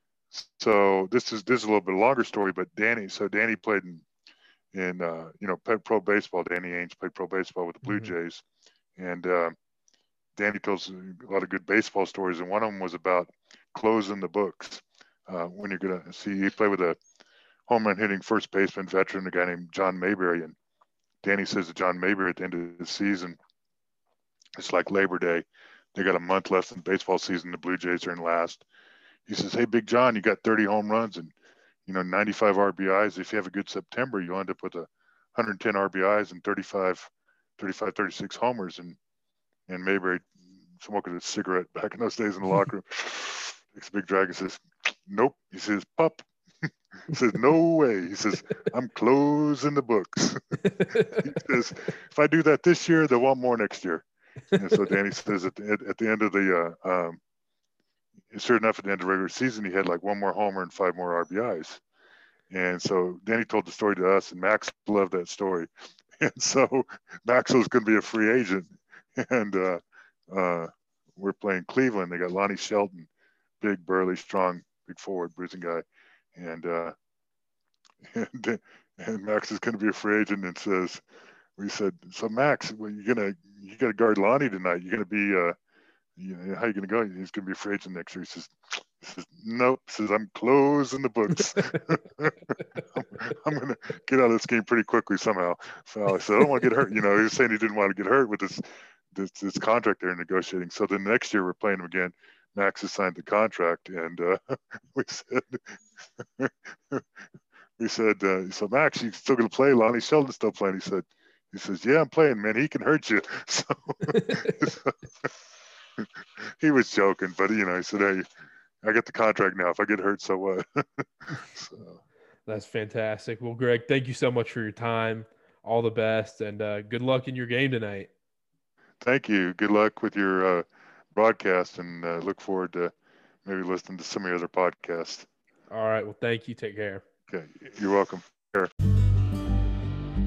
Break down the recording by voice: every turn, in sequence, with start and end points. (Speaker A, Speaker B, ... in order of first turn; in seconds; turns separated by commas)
Speaker A: 0.3-4.0, Speaker A: 4.7-8.4, Speaker B: 7.8-8.1, Speaker A: 9.0-9.6, Speaker A: 10.4-17.0, Speaker A: 17.7-20.6, Speaker A: 21.2-23.4, Speaker A: 24.6-28.7, Speaker A: 29.3-31.3, Speaker A: 31.9-39.0, Speaker A: 39.7-57.2, Speaker B: 50.7-51.2, Speaker A: 58.3-61.8, Speaker A: 62.5-73.1, Speaker A: 73.6-75.8, Speaker A: 76.3-77.0, Speaker A: 78.0-81.0, Speaker A: 81.6-85.6, Speaker A: 86.2-107.0, Speaker A: 107.8-115.3, Speaker A: 116.0-118.3, Speaker A: 118.8-122.0, Speaker B: 122.5-128.1, Speaker A: 129.0-132.9, Speaker A: 133.4-135.3, Speaker B: 135.7-137.0, Speaker A: 137.3-138.7